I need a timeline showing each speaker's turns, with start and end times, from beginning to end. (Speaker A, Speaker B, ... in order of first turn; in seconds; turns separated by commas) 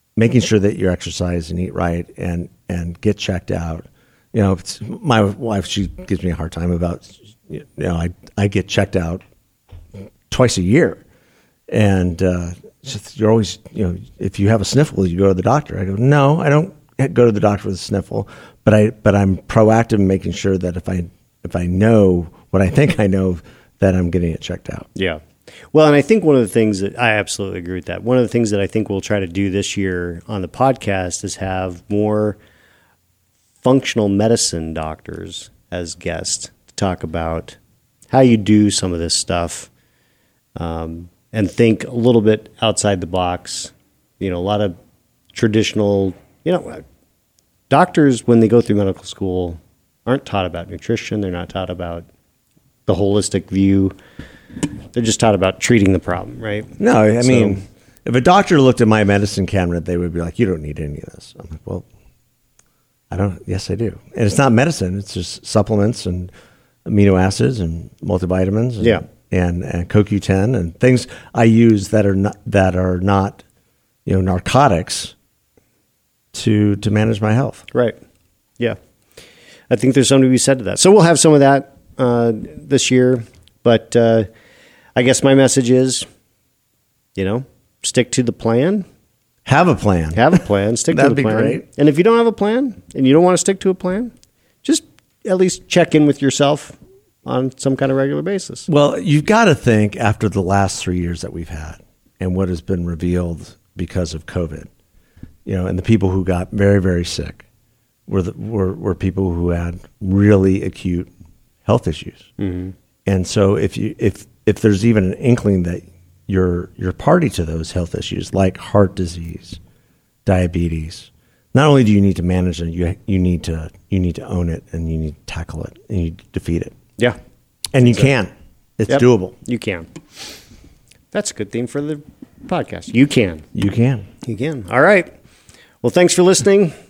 Speaker A: 0.2-9.2, Speaker A: 10.3-11.0, Speaker A: 11.7-24.9, Speaker B: 24.9-32.4, Speaker B: 33.6-37.6, Speaker B: 38.1-39.7, Speaker B: 40.6-44.8, Speaker B: 45.3-46.8, Speaker B: 47.7-52.1, Speaker B: 52.9-53.9, Speaker B: 54.9-57.6, Speaker A: 56.8-61.9, Speaker A: 63.1-66.3, Speaker A: 66.9-73.4, Speaker B: 68.8-69.0, Speaker A: 74.1-75.1, Speaker A: 76.3-77.7, Speaker B: 77.7-78.0, Speaker B: 79.7-84.3, Speaker B: 85.0-86.1, Speaker B: 87.2-88.9, Speaker A: 89.5-91.7, Speaker B: 90.1-94.1, Speaker B: 94.6-98.7, Speaker A: 98.7-104.7, Speaker A: 105.5-107.5, Speaker A: 108.1-111.1, Speaker A: 111.7-112.3, Speaker B: 112.4-112.7, Speaker A: 113.1-119.6, Speaker A: 120.3-126.7, Speaker A: 127.7-129.3, Speaker B: 128.9-130.2, Speaker B: 131.1-133.5, Speaker A: 133.6-134.1, Speaker B: 134.2-135.1, Speaker B: 135.8-136.8